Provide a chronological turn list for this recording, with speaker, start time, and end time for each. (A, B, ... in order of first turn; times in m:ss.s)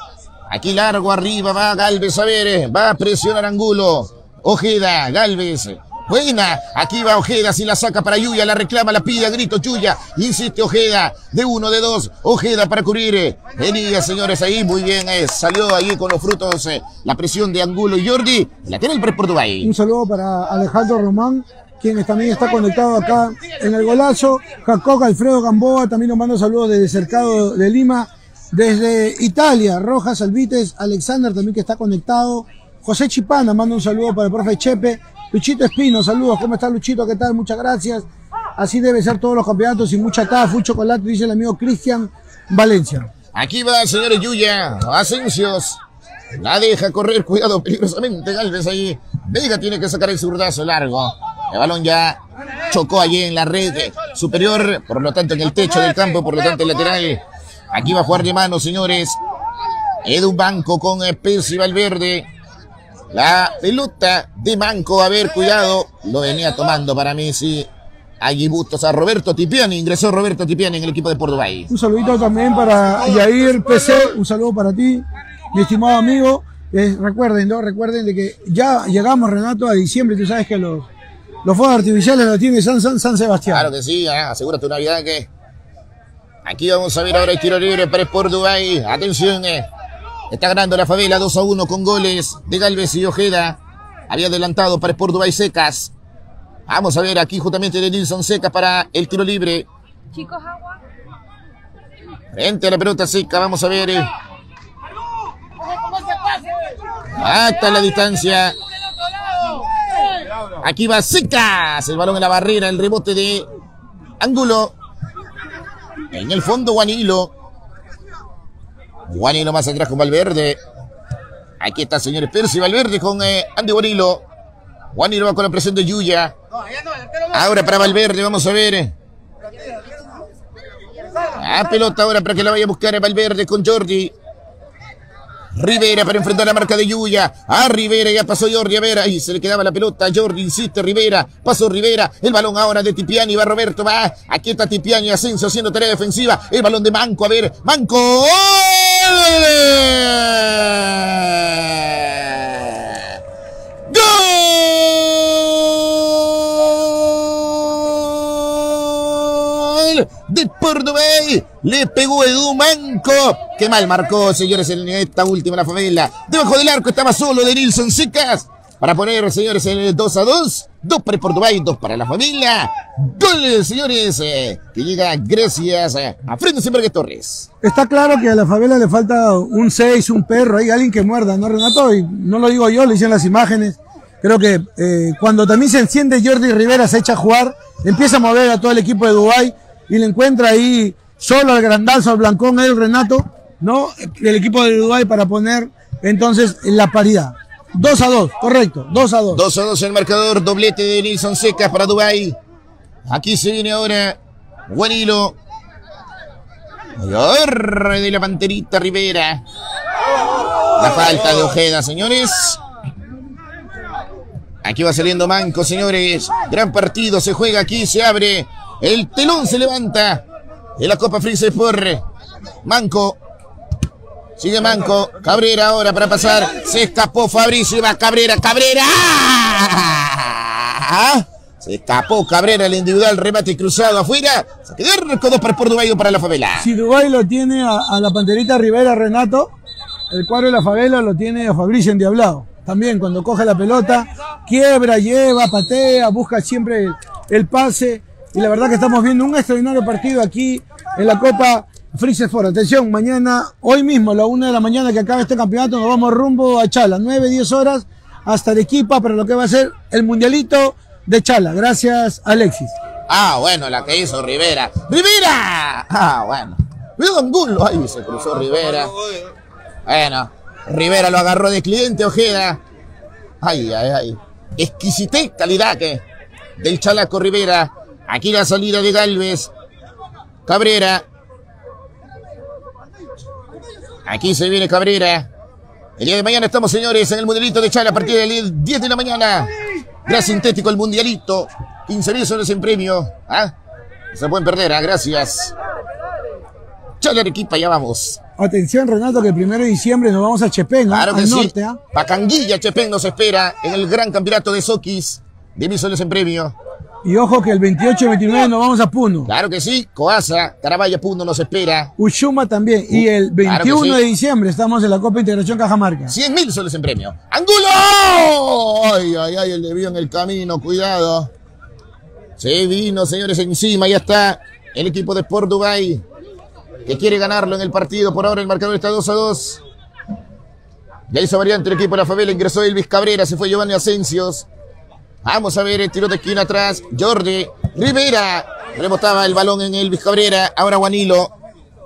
0:00.5-0:19.7 A
0:19.6-0:43.1 B
0:43.3-0:45.8 A
0:46.3-0:57.2 A
0:57.7-0:59.2 A
1:00.0-1:02.3 A
1:03.1-1:07.7 A
1:08.2-1:11.7 A
1:11.7-1:20.9 B
1:21.4-1:23.7 B
1:23.5-1:25.3 A
1:26.4-1:29.7 A
1:30.3-1:33.6 A
1:34.1-1:35.9 A
1:36.7-1:39.7 A
1:42.3-1:44.1 A
1:47.2-1:48.5 A
1:50.6-1:53.5 A
1:54.2-1:54.7 A
1:56.1-1:57.3 A
1:59.1-2:00.6 A
2:01.6-2:04.2 A
2:04.9-2:06.3 A
2:07.3-2:08.9 A
2:11.3-2:14.1 A
2:15.6-2:33.1 A
2:33.9-2:57.5 A
2:57.6-3:19.4 B
3:19.3-3:22.4 A
3:23.1-3:24.2 A
3:24.7-3:25.4 A
3:27.0-3:29.4 A
3:30.8-3:32.6 A
3:34.6-3:40.2 A
3:40.8-3:42.0 A
3:42.6-3:43.2 A
3:44.4-3:56.7 A
3:56.6-3:59.5 B
4:00.1-4:22.7 B
4:23.1-4:28.9 A
4:29.8-4:32.6 A
4:33.4-4:36.0 A
4:36.6-4:39.5 A
4:40.4-4:41.0 A
4:44.0-4:45.3 A
4:46.0-4:49.5 A
4:50.0-4:53.5 A
4:54.1-4:55.5 A
4:57.0-4:58.2 A
4:58.4-5:01.8 B
5:00.9-5:06.5 A
5:07.0-5:09.3 B
5:09.2-5:11.9 A
5:12.0-5:16.1 B
5:12.9-5:14.0 A
5:16.1-5:21.3 A
5:22.4-5:26.0 A
5:26.8-5:29.6 A
5:31.1-5:34.5 A
5:35.2-5:41.3 A